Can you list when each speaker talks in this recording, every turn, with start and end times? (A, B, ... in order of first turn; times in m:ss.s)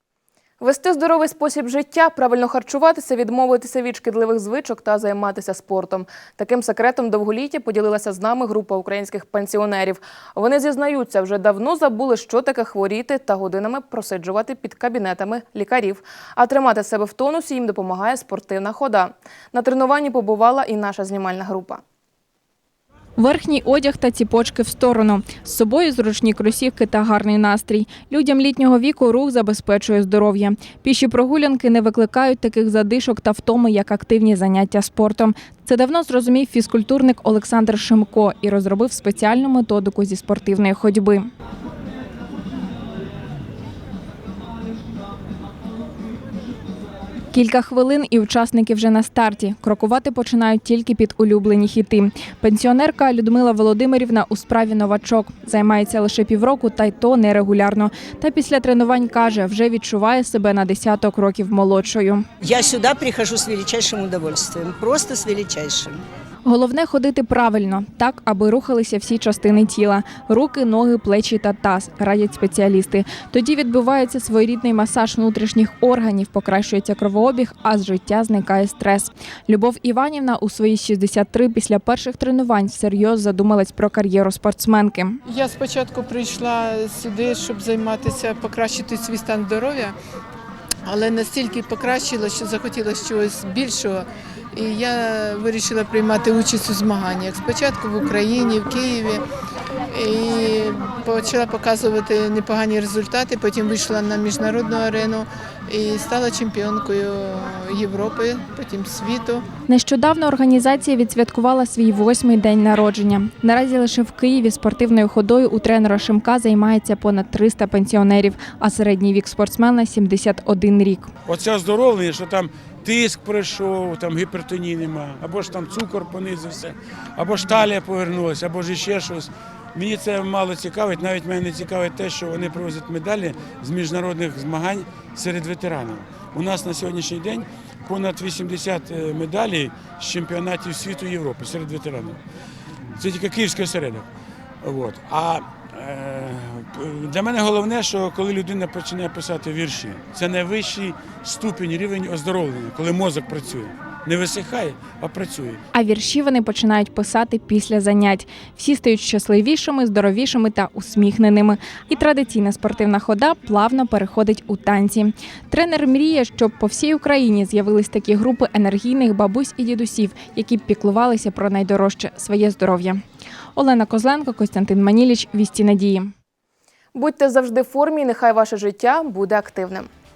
0:00.6-0:21.8 A
0:23.2-0:41.3 B
0:47.3-1:02.3 B
1:02.4-1:06.0 C
1:06.4-1:25.2 B
1:25.3-1:30.0 D
1:30.8-1:39.2 D
1:39.9-1:49.4 D
1:49.7-2:01.1 B
2:01.2-2:22.2 E
2:23.0-2:24.1 E
2:24.6-2:35.6 E
2:35.7-2:53.0 B
2:53.6-2:56.1 B
2:57.0-2:59.9 A